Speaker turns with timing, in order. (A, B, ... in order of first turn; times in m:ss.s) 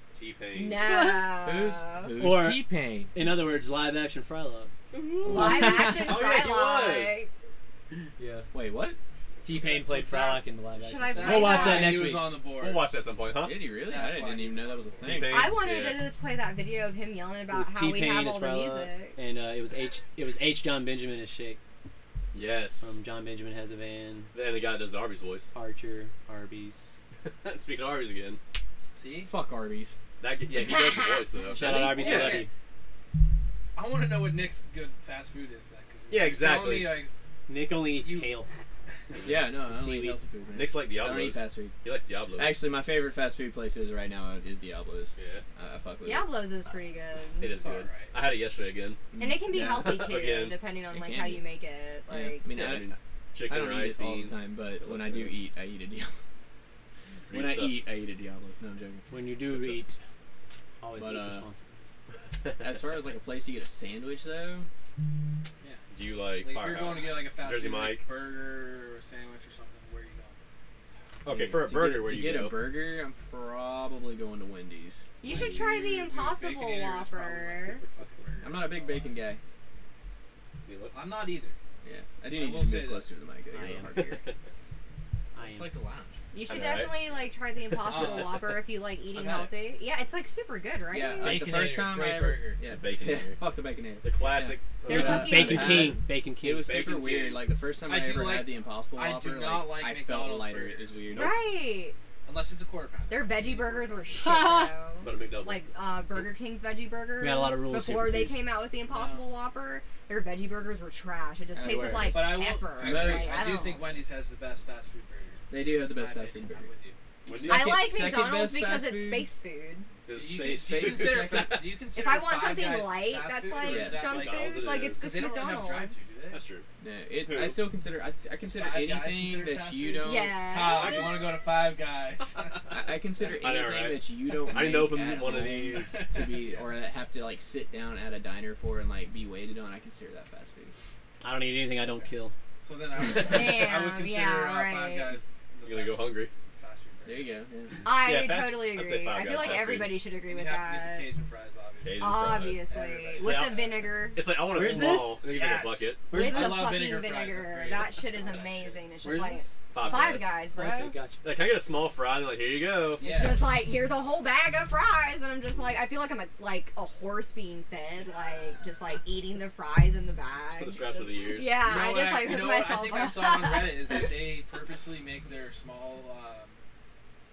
0:00.1-0:00.8 A
0:00.5-0:02.1 B
0:00.8-0:03.2 C
0:02.2-0:04.7 D
0:04.9-0:07.2 A
0:05.2-0:06.2 C
0:05.3-0:07.3 B
0:08.2-0:08.5 D
0:08.5-0:09.0 C
0:09.4-0:12.4 D
0:10.0-0:12.0 B
0:11.1-0:12.9 E
0:12.5-0:13.7 A
0:13.4-0:15.6 C
0:13.8-0:15.2 E
0:15.0-0:16.1 A
0:15.2-0:19.2 B
0:17.5-0:21.6 D
0:22.3-0:23.0 A
0:22.8-0:24.3 D
0:24.3-0:25.5 A
0:25.5-0:27.0 D
0:27.3-0:28.4 A
0:29.0-0:29.3 E
0:29.2-0:30.0 C
0:30.2-0:32.5 A
0:30.7-0:31.1 B
0:31.5-0:32.5 D
0:31.5-0:32.5 E
0:33.8-0:37.1 E
0:36.1-0:37.1 A
0:37.5-0:38.5 D
0:38.0-0:38.3 E
0:39.1-0:39.4 A
0:39.2-0:41.7 C
0:39.7-0:40.2 D
0:40.5-0:42.6 A
0:42.4-0:46.3 C
0:45.2-0:45.4 A
0:46.0-0:47.5 B
0:47.4-0:50.6 A
0:47.6-0:48.2 E
0:49.1-0:50.0 C
0:49.2-0:52.5 B
0:50.9-0:51.4 C
0:52.1-0:53.0 C
0:52.5-0:55.4 A
0:53.5-0:56.2 C
0:57.2-0:57.9 A
0:57.3-0:59.7 C
0:59.1-1:00.0 D
1:00.8-1:01.7 D
1:01.0-1:01.5 C
1:02.6-1:04.7 C
1:05.9-1:08.1 A
1:06.4-1:10.4 E
1:11.2-1:12.7 A
1:11.3-1:15.0 C
1:15.2-1:17.8 B
1:15.3-1:19.2 E
1:18.4-1:19.4 C
1:20.7-1:21.0 A
1:20.9-1:21.6 E
1:21.8-1:24.2 C
1:22.3-1:23.1 E
1:23.5-1:24.1 D
1:25.4-1:25.7 D
1:25.4-1:26.2 C
1:26.3-1:31.5 B
1:26.5-1:27.0 A
1:27.8-1:28.6 E
1:30.9-1:41.3 C
1:31.0-1:32.6 E
1:32.7-1:33.4 A
1:34.0-1:35.9 A
1:34.8-1:35.9 B
1:34.9-1:36.7 D
1:36.6-1:37.5 A
1:37.8-1:41.1 E
1:41.1-1:41.4 A
1:41.1-1:42.0 B
1:42.2-1:44.4 E
1:43.1-1:53.9 B
1:44.2-1:44.7 D
1:45.0-1:45.6 A
1:47.2-1:48.4 D
1:48.9-1:49.3 E
1:51.5-1:53.5 C
1:52.1-1:57.0 E
1:55.5-1:56.7 C
1:57.2-1:57.8 A
1:57.2-1:59.3 C
1:57.4-1:59.9 B
2:00.0-2:01.5 A
2:00.1-2:06.4 E
2:00.3-2:01.7 C
2:01.9-2:06.0 B
2:03.6-2:04.2 C
2:03.8-2:05.0 A
2:06.3-2:06.6 A
2:06.8-2:10.4 C
2:07.2-2:07.6 A
2:08.5-2:12.8 E
2:10.0-2:11.2 B
2:10.6-2:11.3 A
2:12.7-2:20.8 C
2:13.2-2:16.0 A
2:15.2-2:16.7 E
2:21.2-2:22.3 D
2:22.6-2:27.4 E
2:23.2-2:25.2 B
2:25.6-2:26.3 A
2:27.0-2:27.8 C
2:27.8-2:31.1 B
2:27.9-2:30.0 A
2:30.2-2:33.8 E
2:31.8-2:32.7 A
2:32.0-2:34.3 B
2:33.2-2:36.0 A
2:34.4-2:35.2 D
2:34.7-2:39.4 E
2:36.1-2:36.8 D
2:36.1-2:41.0 B
2:39.7-2:40.4 A
2:40.1-2:41.2 D
2:41.2-2:43.0 A
2:43.0-2:43.5 E
2:43.0-2:54.3 B
2:50.5-2:51.6 A
2:51.6-2:56.6 E